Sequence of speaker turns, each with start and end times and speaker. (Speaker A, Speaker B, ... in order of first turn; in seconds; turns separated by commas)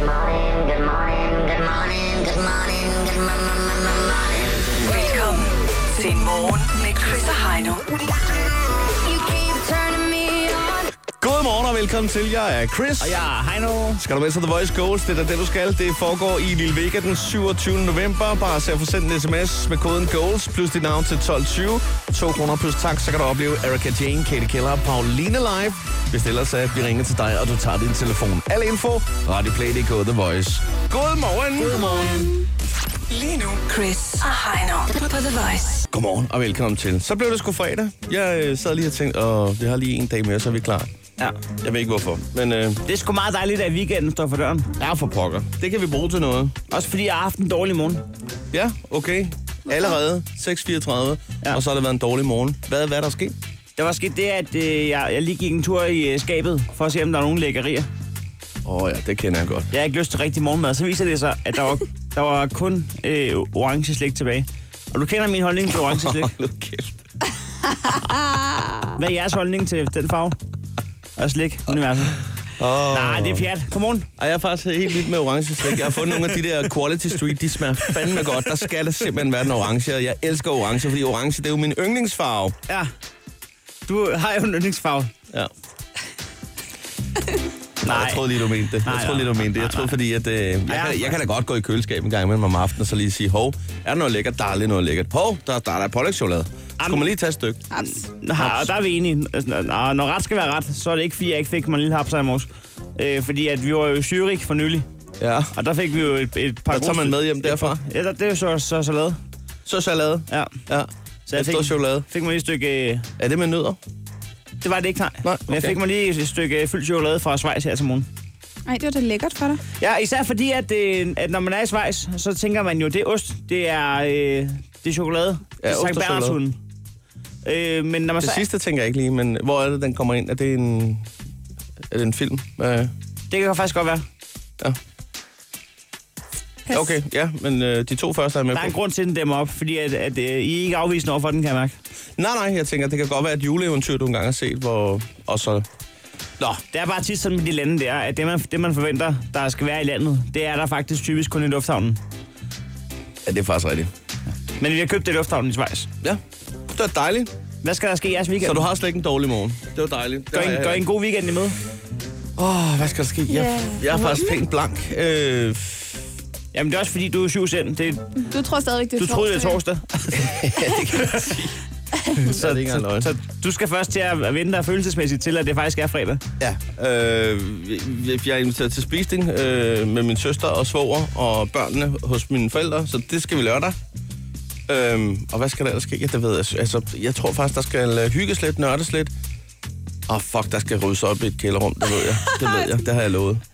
Speaker A: 0.7-8.4, Speaker A: 9.1-10.9, Speaker B: 11.2-13.2, Speaker C: 13.0-14.0, Speaker B: 14.0-32.0, Speaker D: 31.7-32.4, Speaker A: 33.6-35.9, Speaker B: 35.9-42.8, Speaker C: 42.9-44.8, Speaker B: 44.8-46.5, Speaker C: 46.7-48.0, Speaker B: 48.5-53.4, Speaker C: 53.8-57.9, Speaker B: 58.6-59.7, Speaker C: 59.7-66.3, Speaker B: 65.9-67.0, Speaker D: 67.8-69.0, Speaker C: 69.0-70.4, Speaker C: 71.2-72.2, Speaker B: 72.6-73.5, Speaker C: 72.9-74.1, Speaker B: 74.2-82.5, Speaker C: 83.8-85.1, Speaker C: 87.8-88.2, Speaker B: 87.8-97.6, Speaker C: 88.8-89.9, Speaker C: 90.7-91.2, Speaker C: 96.8-97.1, Speaker D: 97.7-98.1, Speaker C: 97.9-104.8, Speaker B: 98.3-98.7, Speaker B: 105.2-105.5, Speaker C: 105.5-109.2, Speaker B: 106.7-107.8, Speaker B: 109.7-112.0, Speaker C: 111.3-113.1, Speaker B: 113.2-113.8, Speaker C: 114.6-118.1, Speaker B: 115.2-115.8, Speaker D: 118.7-119.6, Speaker C: 119.8-126.6, Speaker B: 125.6-126.4, Speaker C: 127.4-128.4, Speaker B: 128.2-131.1, Speaker B: 131.9-132.9, Speaker C: 133.3-134.0, Speaker B: 136.7-138.7, Speaker C: 138.5-141.8, Speaker B: 142.2-145.6, Speaker C: 146.7-152.0, Speaker B: 153.2-153.9, Speaker C: 154.6-155.9, Speaker B: 156.0-157.3, Speaker C: 157.6-158.7, Speaker B: 158.4-160.8, Speaker C: 160.3-161.6, Speaker B: 162.4-165.9, Speaker D: 163.3-164.3, Speaker C: 166.5-168.2, Speaker D: 168.2-169.6, Speaker C: 169.0-170.3, Speaker B: 170.1-171.6, Speaker B: 172.2-173.1, Speaker C: 172.2-176.2, Speaker B: 176.4-183.8, Speaker B: 184.7-189.1, Speaker B: 190.1-193.4